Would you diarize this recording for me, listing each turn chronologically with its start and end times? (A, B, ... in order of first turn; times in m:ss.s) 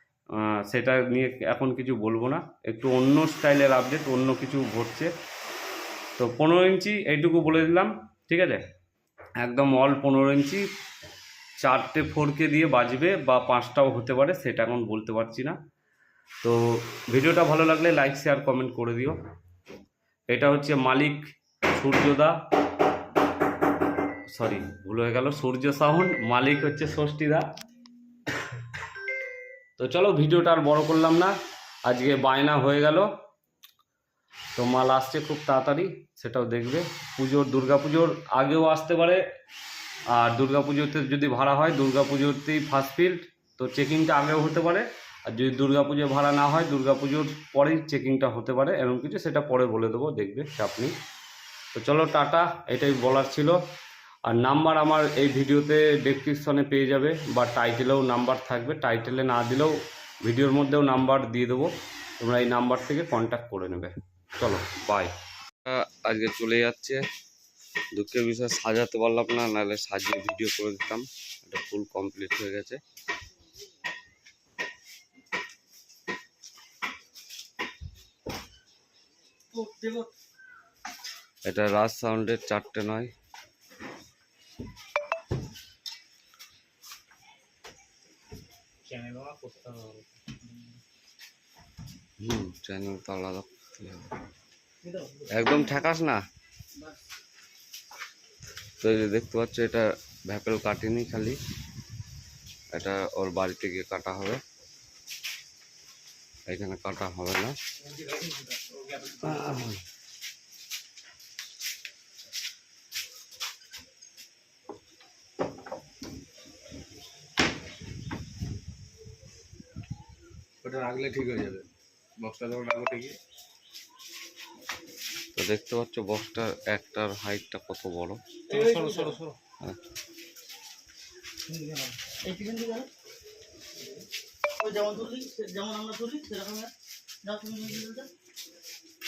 0:00.4-0:05.1 A
0:06.2-0:08.6 A
0:09.4-0:10.6 A
0:11.6-0:15.6 A
0:16.4-0:19.2 A
0:20.3-0:21.2 A
0:21.8-0:22.4 A
0:24.3-0:27.5 A
0:29.8-0:31.4 A
0:31.9-0:33.1 A
0:34.6-0:39.2 A
0:40.1-0:50.9 A
0:51.7-0:53.6 A
0:54.3-1:05.1 A
1:05.6-1:07.0 A
1:08.0-1:12.8 A
1:19.5-1:20.1 B
1:21.5-1:23.1 A
1:28.9-1:30.4 C
1:32.2-1:34.1 A
1:35.3-1:36.2 A
1:38.8-1:41.4 A
1:42.7-1:44.4 A
1:46.5-1:47.6 A
1:47.8-1:49.5 C
1:49.2-1:49.8 A
2:00.6-2:03.2 C
2:05.4-2:08.2 A
2:08.5-2:09.4 C
2:08.5-2:09.2 B
2:11.5-2:12.0 C
2:12.2-2:12.9 B
2:14.6-2:16.7 B
2:17.2-2:18.1 B